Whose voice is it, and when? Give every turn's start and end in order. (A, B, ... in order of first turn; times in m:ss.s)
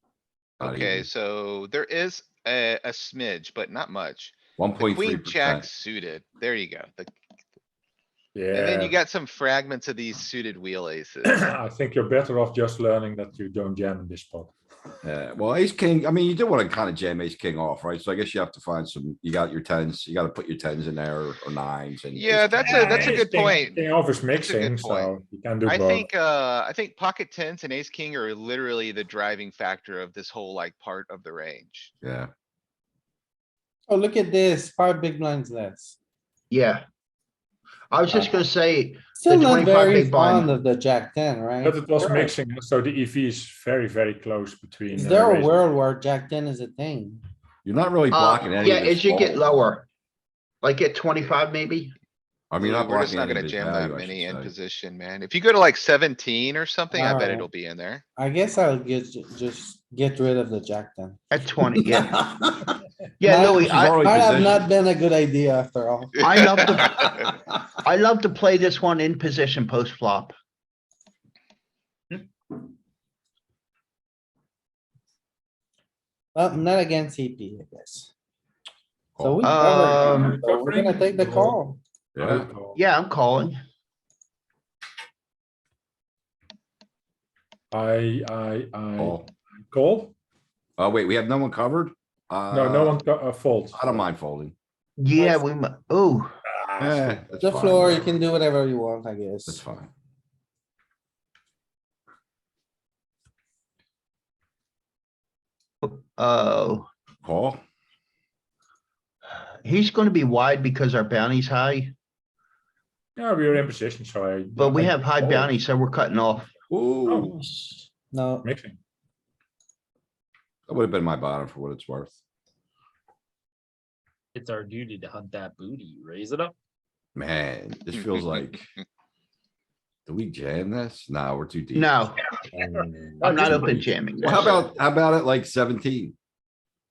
0:00.6-0:07.1 A
0:00.6-0:01.1 B
0:04.6-0:05.7 B
0:08.4-0:09.0 C
0:08.5-0:11.4 A
0:11.2-0:14.6 C
0:15.0-0:23.2 B
0:22.2-0:31.9 A
0:22.6-0:26.1 C
0:32.0-0:32.3 B
0:33.9-0:36.0 D
0:36.5-0:36.8 E
0:37.9-0:40.5 E
0:39.2-0:42.3 D
0:41.6-0:45.6 C
0:44.9-0:47.2 D
0:47.6-0:49.6 B
0:48.1-0:49.9 E
0:50.6-0:52.0 E
0:52.5-0:54.5 B
0:52.6-0:58.0 A
0:56.9-0:57.5 D
0:58.2-1:01.2 D
1:01.3-1:02.3 E
1:01.8-1:02.7 D
1:03.2-1:04.0 E
1:03.2-1:06.8 D
1:03.5-1:04.7 B
1:06.2-1:07.3 E
1:06.4-1:07.1 A
1:07.8-1:10.4 E
1:16.3-1:18.1 D
1:19.2-1:19.5 B
1:19.2-1:21.8 D
1:19.4-1:20.4 E
1:19.9-1:21.6 C
1:22.2-1:22.5 B
1:22.2-1:22.8 C
1:22.8-1:23.6 E
1:27.7-1:30.1 C
1:29.0-1:29.3 B
1:30.8-1:33.0 B
1:32.5-1:34.1 C
1:33.7-1:34.6 B
1:35.0-1:36.3 E
1:36.5-1:37.2 C
1:36.8-1:38.0 B
1:37.4-1:39.6 D
1:39.5-1:39.9 B
1:45.8-1:46.9 E
1:47.2-1:47.6 B
1:49.6-1:52.0 E
1:53.2-1:55.6 C
1:54.6-1:56.5 E
1:56.7-1:57.4 B
1:57.1-1:57.3 C
1:57.4-1:58.5 D
1:58.4-1:58.8 C
2:00.7-2:02.2 B
2:04.4-2:06.5 F
2:07.2-2:08.7 B
2:10.1-2:12.1 B
2:11.7-2:12.2 E
2:12.5-2:13.3 C
2:13.2-2:14.6 F
2:13.2-2:14.6 E
2:13.4-2:16.2 B